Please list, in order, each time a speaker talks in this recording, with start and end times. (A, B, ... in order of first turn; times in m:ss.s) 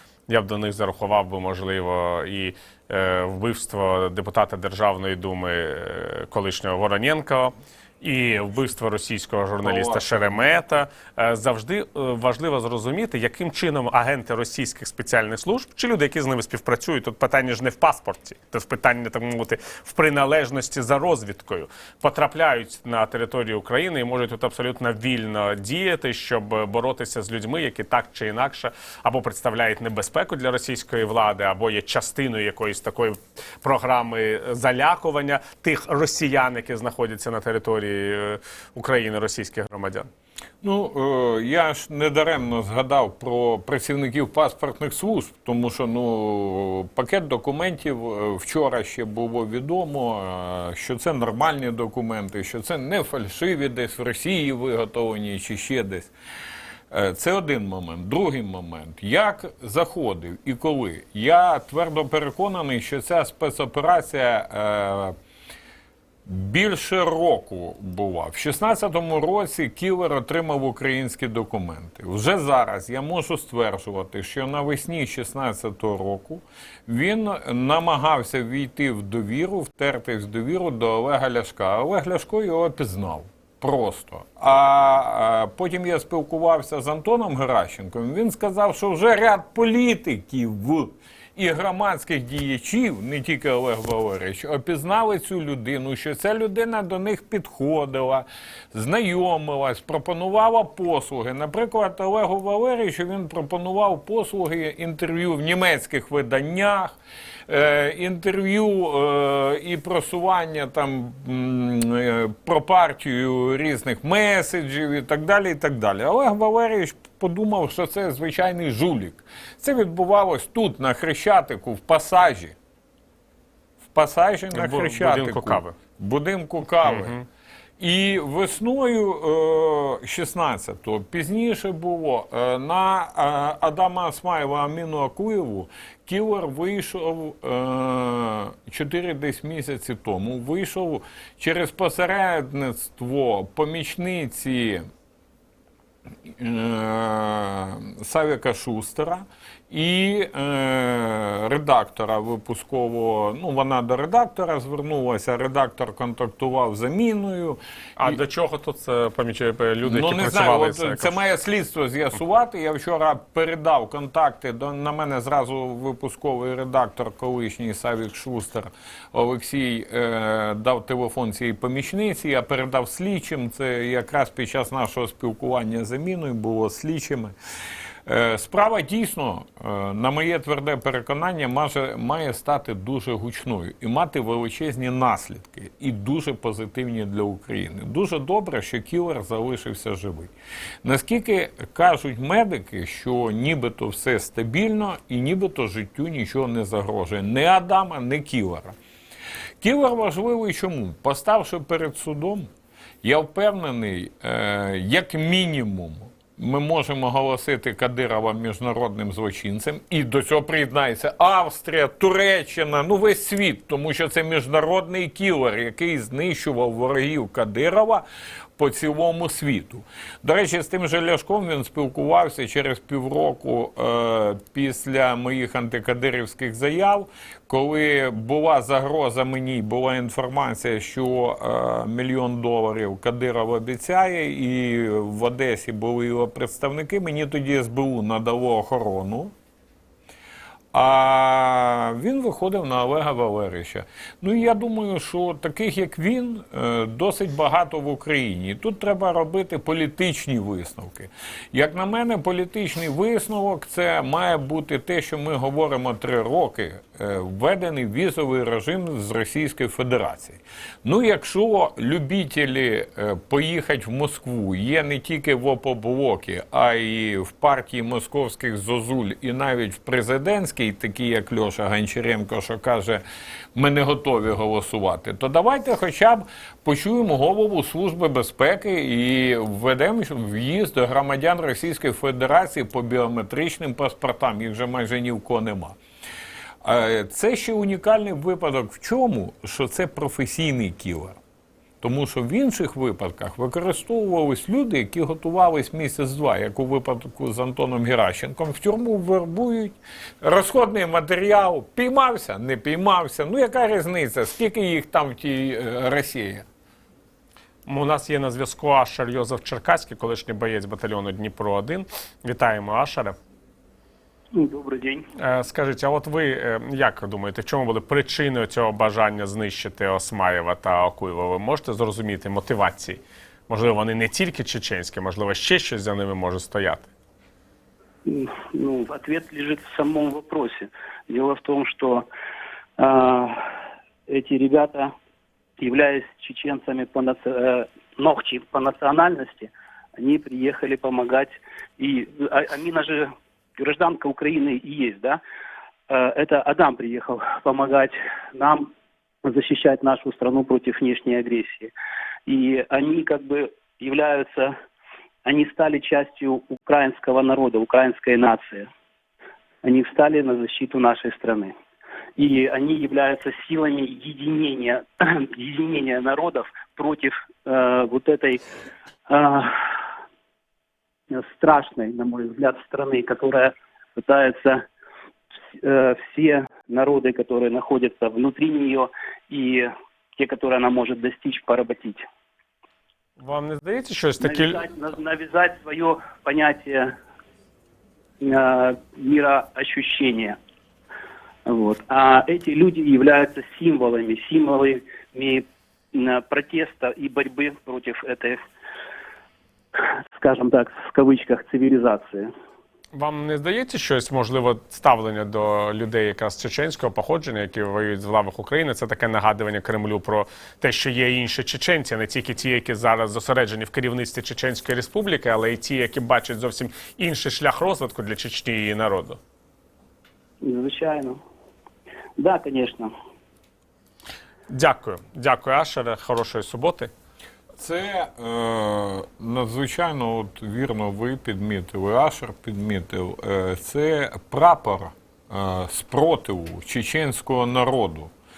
0:00.3-0:40.1 A
0:09.6-0:10.4 B
0:40.6-0:56.1 B
0:56.9-1:05.1 B
1:06.2-1:46.9 B
1:47.5-2:02.6 B
2:03.9-2:07.2 B
2:04.5-2:05.8 A
2:06.8-2:07.2 A
2:07.8-2:24.8 B
2:26.3-2:38.2 B
2:38.0-2:41.2 A
2:39.8-2:57.3 B
2:58.0-3:10.3 B
3:10.8-3:18.7 B
3:19.6-3:22.5 B
3:23.0-3:38.0 B
3:38.6-3:59.3 B
4:00.7-4:33.0 B
4:33.5-4:45.8 B
4:46.6-4:51.2 B
4:51.8-5:06.4 B
5:07.6-5:13.2 A
5:14.3-5:15.1 C
5:15.2-5:26.9 A
5:28.0-5:32.0 C
5:32.8-5:33.4 C
5:34.1-5:34.9 C
5:35.6-5:45.2 C
5:45.9-5:48.7 C
5:49.2-5:51.7 C
5:52.3-5:54.5 C
5:55.2-5:58.7 C
5:59.6-6:01.5 C
6:02.2-6:08.4 C
6:09.1-6:09.5 C
6:11.1-6:14.6 C
6:15.6-6:22.0 C
6:23.2-6:24.6 A
6:24.2-6:26.9 C
6:28.2-6:30.4 C
6:31.4-6:38.5 C
6:40.2-6:42.3 C
6:42.9-6:59.2 A
7:00.4-7:01.2 C
7:02.2-7:02.9 C
7:04.5-7:06.9 A
7:07.6-7:18.1 B